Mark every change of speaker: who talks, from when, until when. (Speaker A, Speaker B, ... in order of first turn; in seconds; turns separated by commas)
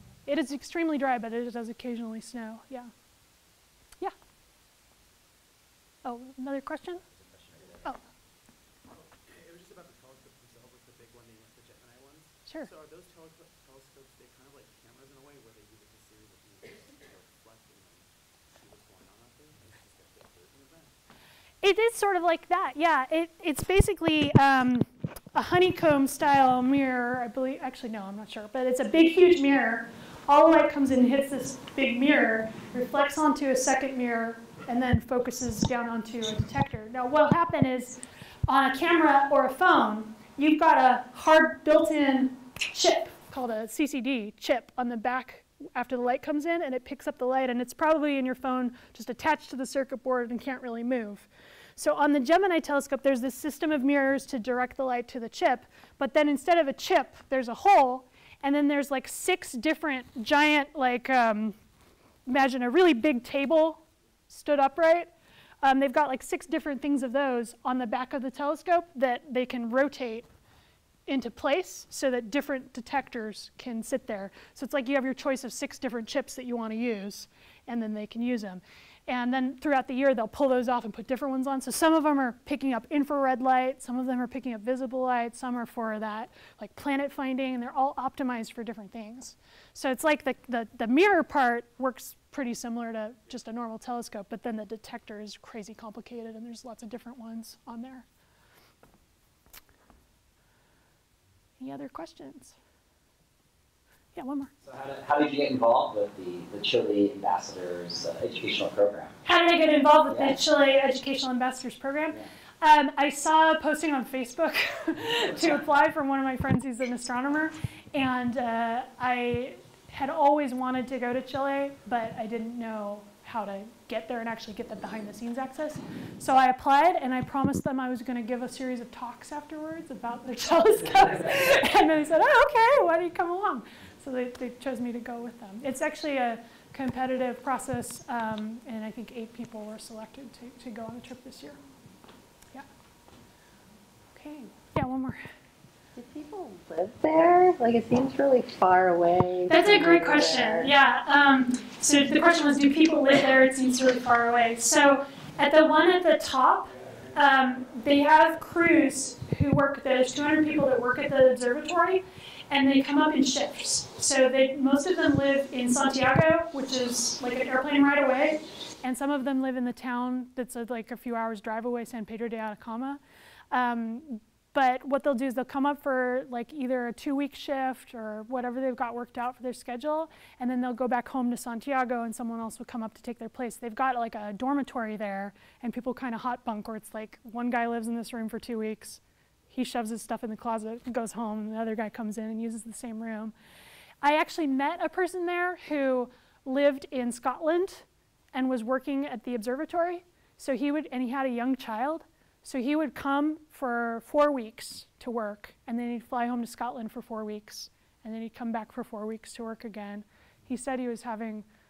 Speaker A: 0.3-2.9, Speaker A: 6.0-7.0, Speaker B: 8.9-20.9, Speaker A: 21.6-61.6, Speaker A: 62.3-65.1, Speaker A: 65.6-70.3, Speaker A: 71.1-98.1, Speaker A: 101.6-102.6, Speaker A: 104.2-104.5, Speaker C: 104.6-109.2, Speaker A: 109.2-141.6, Speaker C: 110.1-110.4, Speaker A: 144.2-145.2, Speaker D: 146.0-150.7, Speaker A: 149.5-173.0, Speaker A: 173.5-193.3, Speaker A: 194.0-211.5